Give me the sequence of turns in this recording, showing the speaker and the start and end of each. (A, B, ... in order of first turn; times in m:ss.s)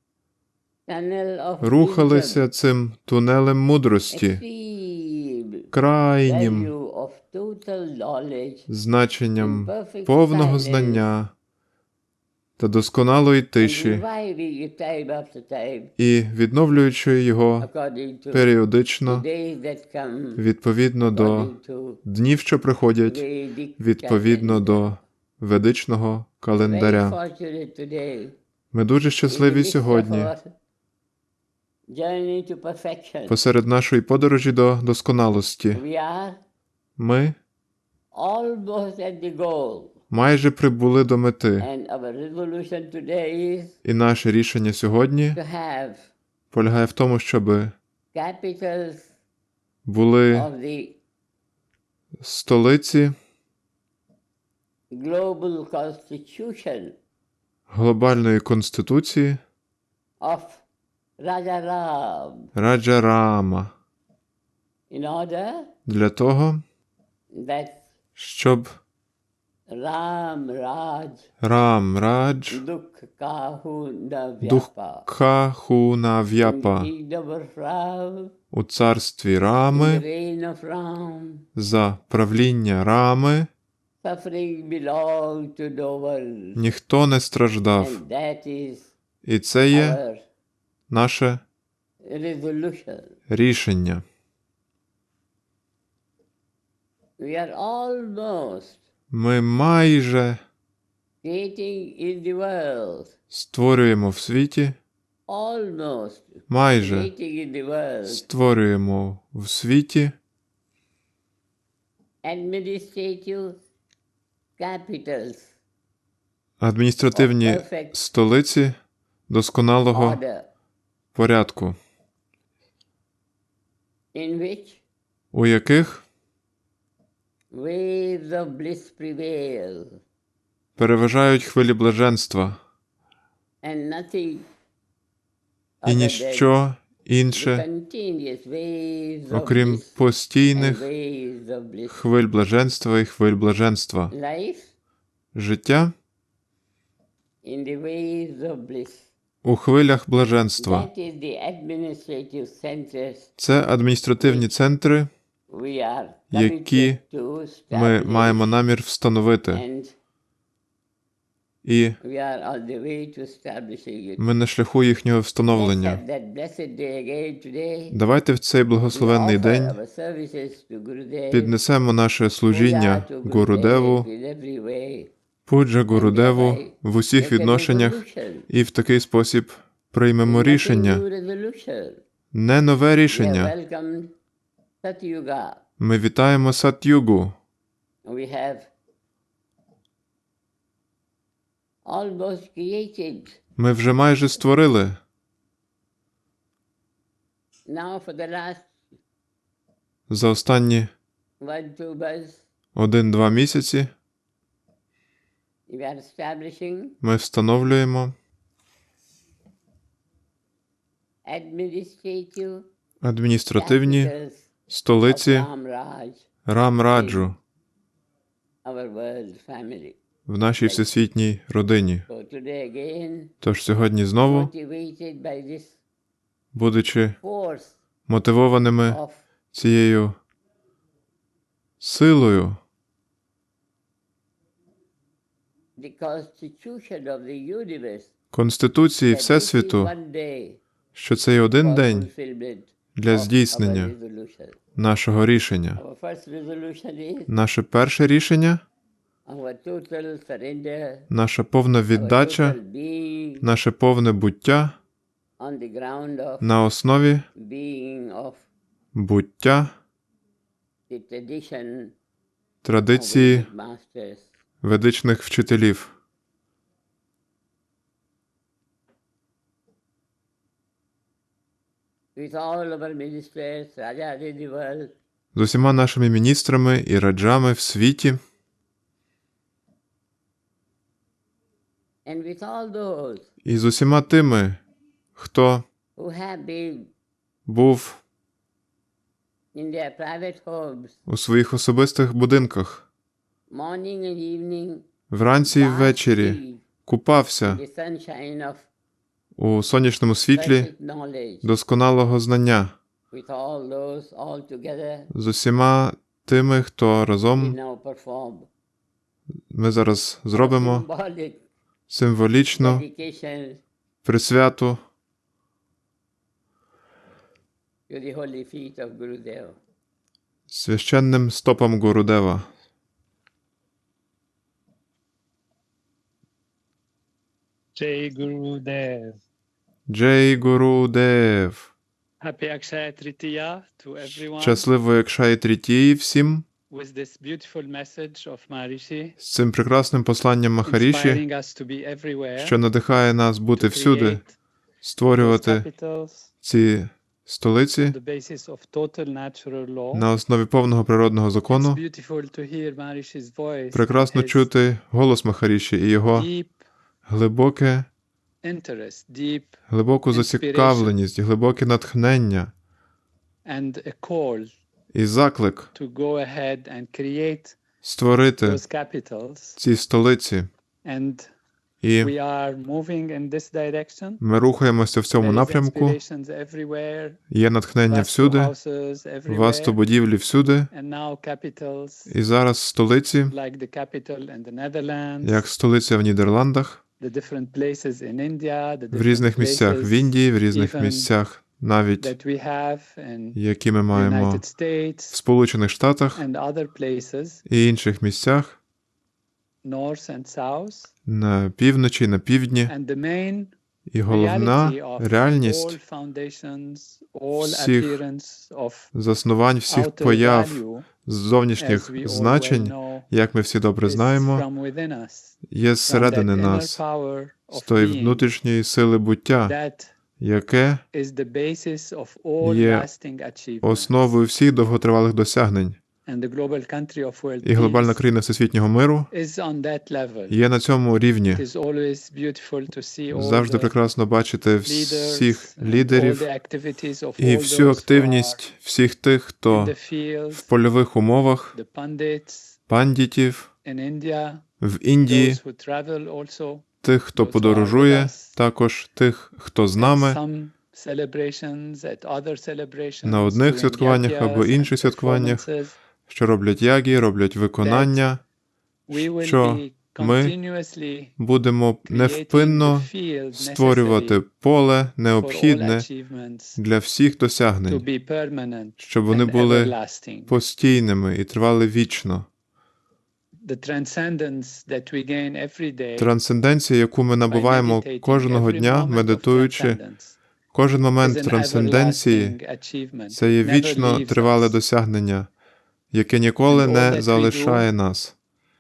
0:00.9-0:02.4 A
0:01.6-0:04.4 B
0:04.1-0:05.7 A
0:05.7-0:06.7 B
0:06.3-0:08.7 A
0:08.7-0:11.3 B
0:09.4-0:11.1 A
0:12.6-0:14.0 B
0:13.6-0:15.9 A
0:16.0-0:17.7 B
0:17.6-0:18.5 A
0:18.3-0:19.2 B
0:19.1-0:20.4 A
0:20.4-0:21.5 B
0:21.0-0:22.0 A
0:22.0-0:23.2 B
0:23.1-0:25.0 A
0:23.8-0:27.2 B
0:26.5-0:28.4 A
0:28.7-0:30.3 B
0:29.3-0:30.6 A
0:31.9-0:33.4 A
0:33.3-0:35.8 B
0:35.7-0:36.4 A
0:37.0-0:37.4 B
0:38.1-0:40.0 A
0:40.1-0:41.7 B
0:41.6-0:43.8 A
0:43.8-0:45.4 B
0:45.4-0:46.1 A
0:46.5-0:47.8 B
0:48.1-0:49.1 A
0:49.9-0:50.5 B
0:50.3-0:51.0 A
0:52.2-0:53.2 B
0:54.9-0:57.0 A
0:57.7-0:59.4 B
1:00.2-1:00.6 A
1:01.2-1:02.5 A
1:02.6-1:03.7 B
1:04.9-1:05.7 A
1:05.9-1:06.6 B
1:07.3-1:07.8 A
1:08.2-1:08.8 B
1:09.7-1:11.3 A
1:11.4-1:12.6 B
1:12.5-1:15.1 A
1:14.4-1:16.9 B
1:16.4-1:18.3 A
1:18.5-1:20.0 B
1:19.7-1:21.5 A
1:21.6-1:23.5 B
1:24.0-1:26.6 A
1:26.6-1:28.0 B
1:27.8-1:28.9 A
1:29.2-1:30.0 B
1:29.7-1:30.2 A
1:30.9-1:31.4 B
1:32.0-1:33.2 A
1:33.3-1:34.0 B
1:37.2-1:38.8 A
1:39.1-1:40.4 B
1:41.2-1:43.2 A
1:43.3-1:44.8 B
1:45.3-1:48.2 A
1:46.5-1:47.1 B
1:48.1-1:50.2 B
1:52.2-1:53.6 A
1:54.6-1:55.5 A
1:56.6-1:58.8 B
1:57.1-1:58.0 A
1:59.3-2:00.2 B
1:59.9-2:00.5 A
2:01.2-2:01.8 B
2:04.1-2:04.8 A
2:05.3-2:06.0 B
2:07.5-2:10.0 A
2:10.8-2:12.6 B
2:13.6-2:14.5 A
2:15.8-2:16.5 A
2:15.8-2:17.7 B
2:17.3-2:19.9 A
2:19.3-2:20.9 B
2:20.5-2:22.0 A
2:21.9-2:24.1 B
2:24.1-2:24.7 A
2:25.4-2:25.9 B
2:27.4-2:29.1 A
2:29.4-2:30.9 B
2:30.6-2:33.3 A
2:33.4-2:35.1 B
2:34.2-2:34.5 A
2:35.5-2:38.5 A
2:36.3-2:37.0 B
2:37.7-2:39.6 B
2:39.5-2:40.0 A
2:41.6-2:42.0 B
2:42.0-2:44.2 A
2:44.2-2:46.0 B
2:45.4-2:48.0 A
2:47.9-2:49.8 B
2:48.9-2:51.6 A
2:51.3-2:54.1 B
2:52.5-2:55.1 A
2:55.5-3:01.0 B
2:55.9-2:58.5 A
3:00.2-3:02.0 A
3:02.3-3:03.5 B
3:03.1-3:04.1 A
3:04.8-3:05.6 A
3:05.8-3:07.4 B
3:08.0-3:08.7 A
3:11.8-3:13.4 A
3:13.6-3:15.0 B
3:17.7-3:18.7 A
3:20.1-3:20.9 B
3:21.4-3:22.4 A
3:22.8-3:23.9 B
3:25.7-3:27.0 A
3:27.0-3:28.2 B
3:31.2-3:32.7 A
3:33.0-3:34.1 B
3:33.6-3:34.5 A
3:34.7-3:35.5 B
3:35.0-3:36.3 A
3:36.5-3:37.4 B
3:36.9-3:37.3 A
3:38.6-3:40.0 A
3:40.3-3:42.1 B
3:40.6-3:40.9 A
3:42.1-3:43.3 A
3:43.4-3:44.5 B
3:44.2-3:45.8 A
3:46.5-3:47.2 B
3:47.2-3:47.8 A
3:48.1-3:49.0 B
3:48.9-3:49.2 A
3:49.5-3:50.2 B
3:51.8-3:52.6 B
3:55.8-3:58.1 A
3:58.3-3:59.9 B
3:59.1-4:00.6 A
4:01.0-4:02.1 B
4:01.6-4:04.6 A
4:03.0-4:03.9 B
4:04.8-4:05.8 B
4:05.8-4:07.3 A
4:07.3-4:08.6 B
4:09.3-4:11.1 A
4:11.1-4:12.6 B
4:11.9-4:13.5 A
4:13.4-4:14.8 B
4:15.4-4:16.5 A
4:16.4-4:17.3 B
4:17.4-4:18.4 A
4:18.9-4:19.8 B
4:20.9-4:21.9 A
4:22.6-4:23.5 B
4:22.9-4:24.3 A
4:24.6-4:25.9 B
4:32.2-4:35.0 A
4:35.3-4:38.2 B
4:42.0-4:43.3 A
4:43.4-4:44.6 B
4:45.2-4:45.7 B
4:46.0-4:46.9 A
4:47.5-4:48.0 B
4:49.5-4:51.0 A
4:51.1-4:52.9 B
4:53.5-4:54.9 A
4:55.1-4:57.6 B
4:55.4-4:56.6 A
4:57.4-4:58.7 A
4:59.4-5:00.7 B
5:00.3-5:01.5 A
5:01.4-5:02.8 B
5:03.1-5:05.1 A
5:05.1-5:07.6 B
5:07.4-5:08.5 A
5:09.5-5:10.9 B
5:10.3-5:11.4 A
5:11.9-5:12.8 B
5:12.6-5:13.6 A
5:14.0-5:14.8 B
5:17.9-5:19.6 A
5:20.5-5:22.5 B
5:27.8-5:29.2 C
5:29.9-5:31.7 B
5:32.2-5:34.6 C
5:34.0-5:36.4 B
5:36.7-5:39.2 C
5:39.2-5:41.2 B
5:40.6-5:42.6 C
5:42.4-5:44.2 B
5:43.6-5:44.3 C
5:44.8-5:45.7 B
5:45.2-5:46.3 C
5:46.4-5:48.0 B
5:47.8-5:50.1 C
5:49.9-5:51.8 B
5:51.5-5:54.5 C
5:53.7-5:56.3 B
5:56.1-5:56.6 C
5:57.1-5:57.9 B
5:58.4-5:59.6 C
5:59.7-6:02.5 B
6:00.1-6:01.0 C
6:03.4-6:04.5 C
6:04.9-6:05.7 B
6:05.7-6:07.6 C
6:07.8-6:08.6 B
6:08.4-6:09.6 C
6:09.6-6:10.5 B
6:10.8-6:11.3 C
6:11.8-6:12.1 B
6:12.0-6:14.2 C
6:14.2-6:16.0 B
6:15.2-6:17.2 C
6:17.3-6:18.5 B
6:17.9-6:19.8 C
6:19.3-6:20.7 B
6:20.7-6:22.1 C
6:22.1-6:23.3 B
6:23.3-6:25.4 C
6:25.2-6:26.8 B
6:27.0-6:31.1 C
6:28.9-6:32.1 B
6:32.0-6:33.4 C
6:33.4-6:34.4 B
6:33.9-6:35.2 C
6:35.1-6:36.2 B
6:36.2-6:37.4 C
6:37.5-6:38.6 B
6:39.6-6:40.9 C
6:41.1-6:42.7 B
6:42.7-6:43.5 C
6:43.9-6:45.8 B
6:44.1-6:48.9 C
6:47.4-6:48.0 B
6:48.9-6:54.4 B
6:49.7-6:50.9 C
6:51.6-6:53.1 C
6:53.8-6:58.2 C
6:55.5-6:56.8 B
6:57.5-6:59.6 B
6:59.4-6:59.9 C
7:00.2-7:00.8 B
7:00.9-7:03.9 C
7:02.4-7:02.9 B
7:03.6-7:05.8 B
7:06.1-7:08.0 C
7:07.4-7:09.1 B
7:09.1-7:10.4 C
7:10.3-7:11.4 B
7:11.3-7:13.7 C
7:13.1-7:16.3 B
7:14.6-7:18.4 C
7:17.2-7:19.7 B
7:19.5-7:20.5 C
7:20.3-7:21.6 B
7:21.5-7:22.6 C
7:22.7-7:23.5 B
7:23.6-7:24.4 C
7:24.6-7:25.4 B
7:25.1-7:26.6 C
7:26.8-7:30.2 B
7:27.2-7:28.4 C
7:29.8-7:35.8 C
7:33.0-7:35.4 B
7:36.1-7:38.2 B
7:37.6-7:38.0 C
7:38.9-7:41.1 C
7:38.9-7:40.4 B
7:41.2-7:45.9 B
7:41.9-7:44.2 C
7:45.2-7:46.6 C
7:46.6-7:47.8 B
7:47.7-7:50.3 C
7:48.8-7:49.7 B
7:50.3-7:52.3 B
7:53.4-7:56.1 C
7:56.0-7:59.8 B
7:57.3-8:00.2 C
8:00.5-8:02.4 B
8:01.0-8:04.6 C
8:03.1-8:05.3 B
8:05.9-8:08.2 B
8:06.5-8:07.7 C